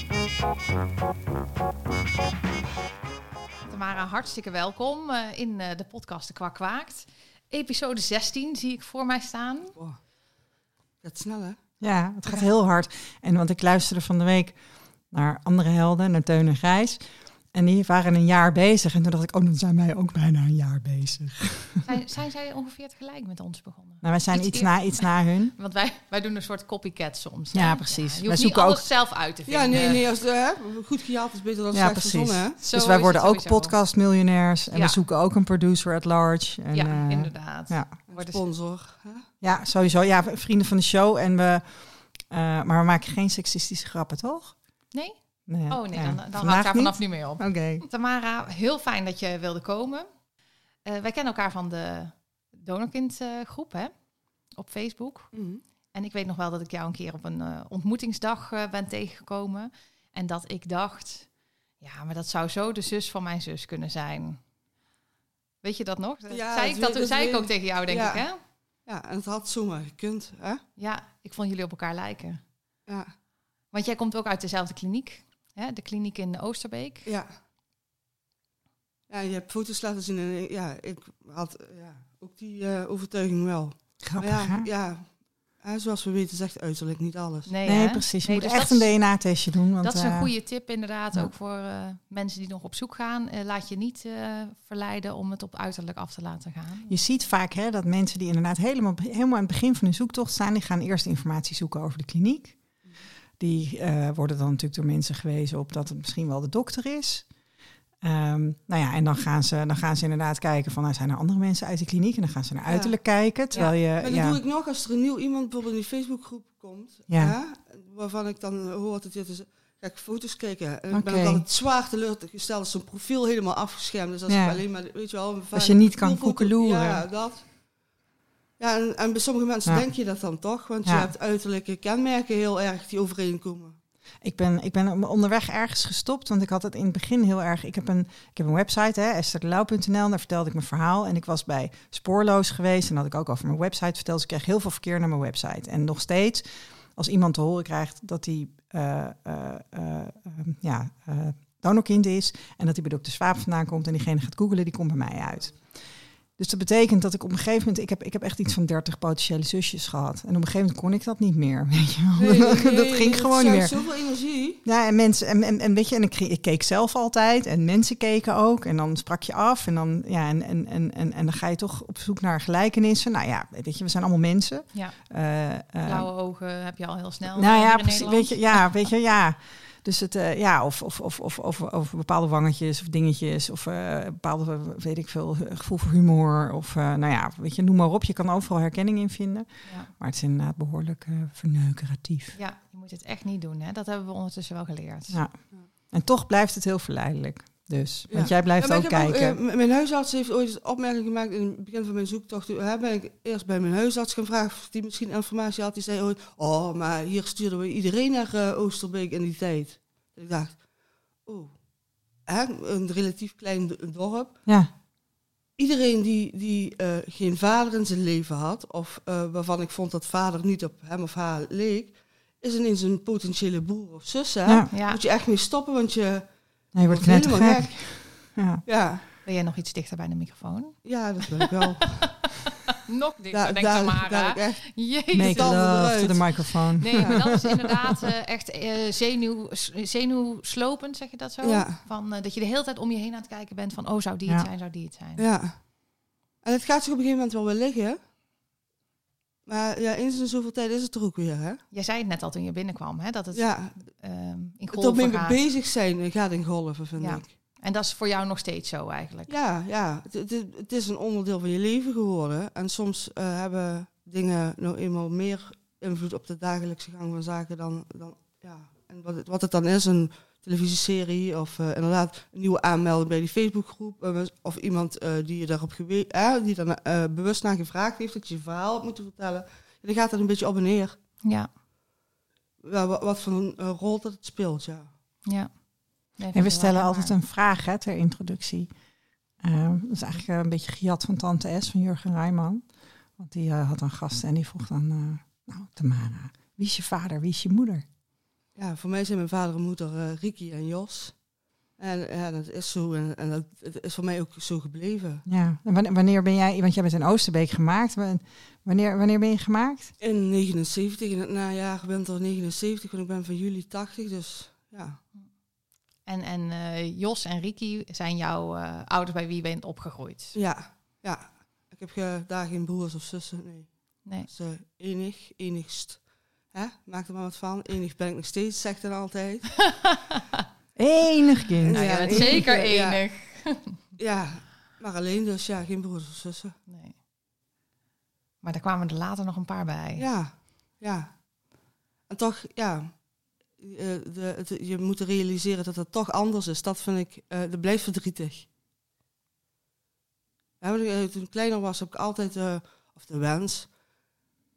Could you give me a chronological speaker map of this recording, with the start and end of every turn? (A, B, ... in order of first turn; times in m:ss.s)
0:03.7-0:09.8 A
0:09.8-0:10.0 B
0:11.0-0:11.6 B
0:11.8-0:21.9 C
0:21.8-0:30.1 A
0:24.0-0:25.5 C
0:27.5-0:28.9 C
0:29.5-0:32.6 B
0:29.7-0:30.0 C
0:31.7-0:38.0 C
0:32.6-0:33.8 A
0:34.7-0:35.0 A
0:36.7-0:38.4 A
0:38.1-0:39.3 B
0:39.4-0:44.7 C
0:44.9-0:50.2 A
0:45.5-0:47.9 C
0:50.8-0:55.3 A
0:55.3-0:55.6 B
0:55.9-1:04.4 A
1:05.6-1:08.4 A
1:06.3-1:10.6 B
1:10.8-1:12.4 A
1:12.9-1:13.1 B
1:13.7-1:17.1 A
1:17.0-1:17.4 B
1:19.1-1:27.5 B
1:24.0-1:24.7 C
1:27.5-1:29.2 A
1:27.7-1:30.4 C
1:29.8-1:37.0 A
1:36.9-1:42.8 C
1:43.4-1:47.3 C
1:48.0-1:54.4 C
1:52.7-2:07.7 B
1:57.1-1:57.4 C
2:00.9-2:01.5 C
2:04.3-2:04.6 C
2:05.5-2:07.1 C
2:08.6-2:13.8 B
2:10.8-2:11.1 C
2:14.2-2:43.9 C
2:42.2-2:44.6 B
2:44.6-2:56.1 C
2:54.7-2:55.1 A
2:55.8-2:58.8 A
2:57.4-3:12.4 C
3:09.6-3:09.9 A
3:12.3-3:15.2 A
3:15.1-3:19.4 C
3:18.1-3:30.7 B
3:31.2-3:31.6 B
3:32.3-3:34.4 B
3:34.5-3:34.7 C
3:35.6-3:49.0 B
3:44.7-3:45.0 A
3:46.7-3:48.6 C
3:49.2-3:51.4 A
3:50.8-3:52.2 B
3:52.7-3:55.6 A
3:53.3-3:57.4 B
3:55.1-3:57.7 C
3:56.8-4:05.2 A
4:01.4-4:01.8 B
4:05.2-4:05.8 B
4:06.4-4:08.0 B
4:09.5-4:11.6 B
4:11.7-4:15.4 A
4:13.3-4:13.8 B
4:14.7-4:17.3 B
4:17.0-4:19.3 A
4:19.3-4:41.0 B
4:41.2-4:41.5 A
4:42.6-4:44.9 B
4:45.2-4:47.2 A
4:46.3-4:48.8 C
4:49.4-4:57.8 C
4:58.6-5:01.2 B
5:01.8-5:05.2 B
5:05.3-5:09.9 C
5:10.0-5:15.0 B
5:16.0-5:20.4 A
5:20.3-5:29.8 B
5:29.6-5:30.0 A
5:30.8-5:32.5 C
5:31.6-5:33.1 B
5:31.7-5:33.8 A
5:34.0-5:36.6 B
5:36.7-5:37.0 A
5:38.4-5:40.1 A
5:40.0-5:41.4 B
5:42.1-5:48.5 B
5:50.6-5:53.7 B